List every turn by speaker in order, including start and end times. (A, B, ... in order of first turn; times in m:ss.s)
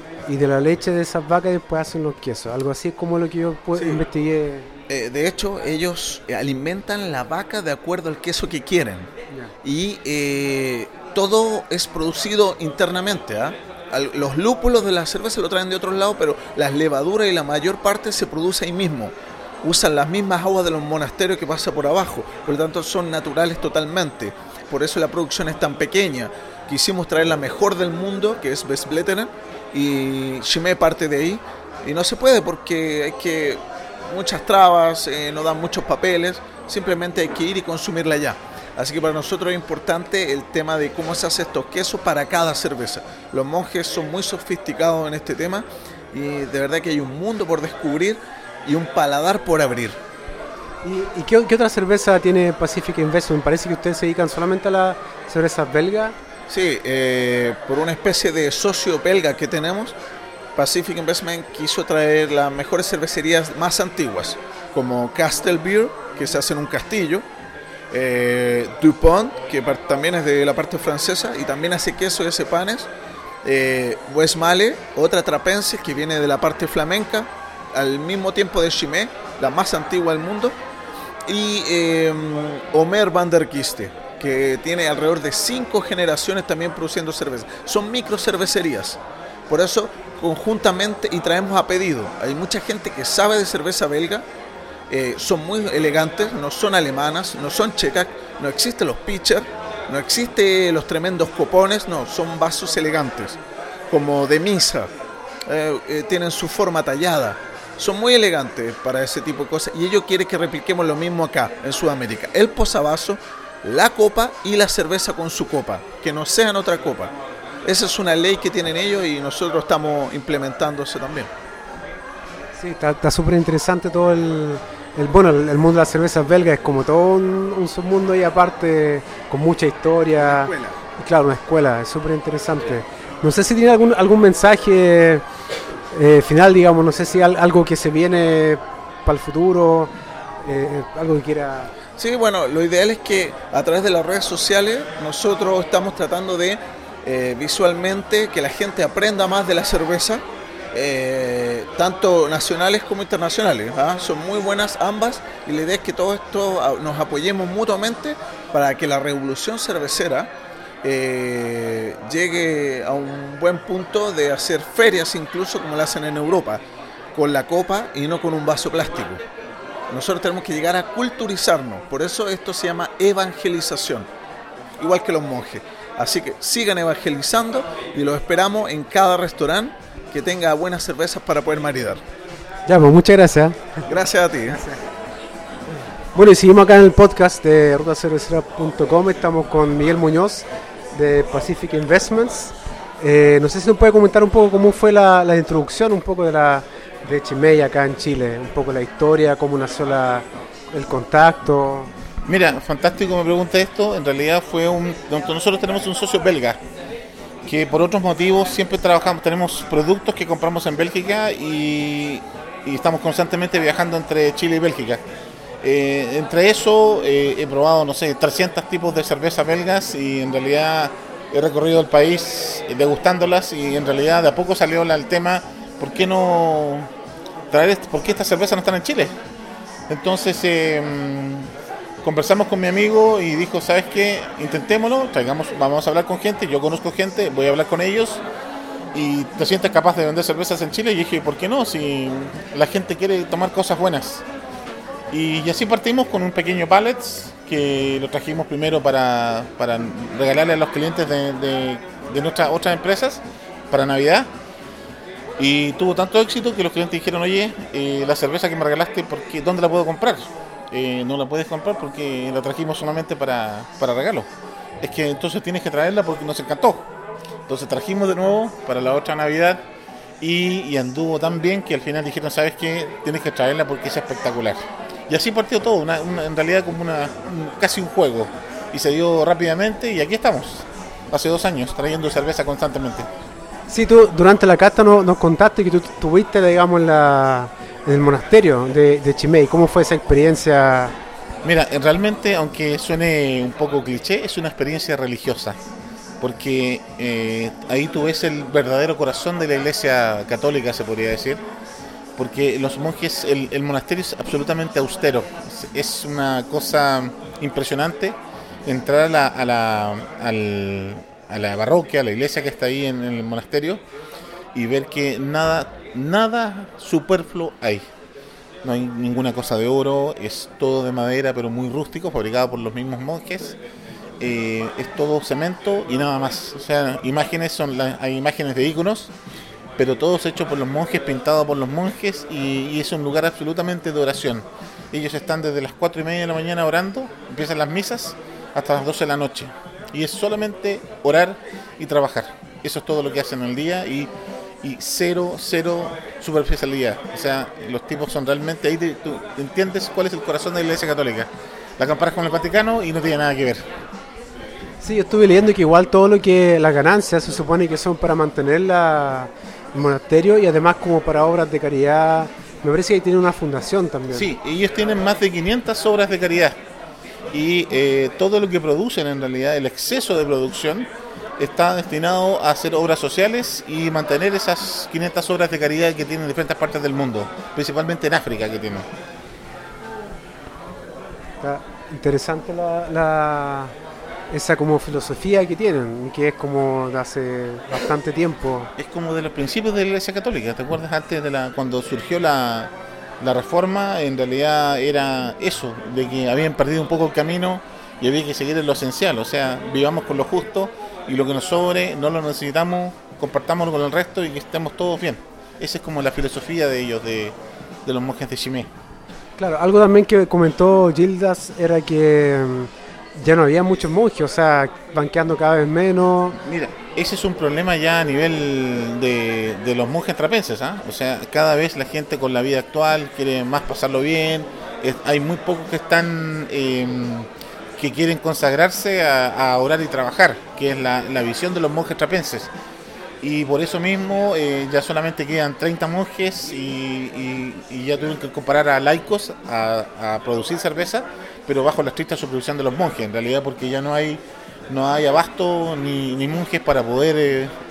0:00.3-0:04.7 A
0:03.7-0:04.0 B
0:04.9-0:09.1 B
0:09.6-0:50.0 B
0:50.8-0:56.2 A
0:56.5-1:00.0 B
1:00.6-1:07.2 B
1:07.9-1:12.9 B
1:13.4-1:20.6 B
1:21.3-1:34.2 B
1:34.9-1:44.9 B
1:45.5-1:57.1 B
1:57.6-2:01.3 B
2:02.6-2:15.2 A
2:10.2-2:10.8 B
2:15.9-2:19.9 A
2:20.4-2:21.7 A
2:22.0-2:40.3 B
2:40.8-2:46.6 B
2:47.1-2:49.2 B
2:49.9-2:54.1 B
2:54.8-3:02.0 B
3:02.7-3:03.8 A
3:03.9-3:04.6 B
3:06.1-3:21.9 A
3:22.3-3:26.6 C
3:27.4-3:35.0 C
3:35.6-3:46.9 C
3:47.5-3:49.1 C
3:49.9-3:58.2 C
3:58.9-4:04.2 C
4:05.1-4:14.3 C
4:15.4-4:24.3 C
4:24.8-4:26.9 C
4:27.5-4:29.6 C
4:30.2-4:43.1 C
4:43.7-4:51.0 A
4:51.4-4:55.6 C
4:56.2-5:01.4 C
5:02.2-5:13.8 C
5:14.5-5:17.9 C
5:18.6-5:23.6 C
5:24.2-5:29.1 C
5:29.8-5:53.7 C
5:54.8-6:04.3 A
6:04.1-6:06.6 C
6:07.3-6:18.9 C
6:21.4-6:23.7 A
6:24.3-6:28.7 A
6:28.8-6:48.7 C
6:49.4-6:56.4 A
6:56.4-7:12.5 C
7:13.2-7:27.5 C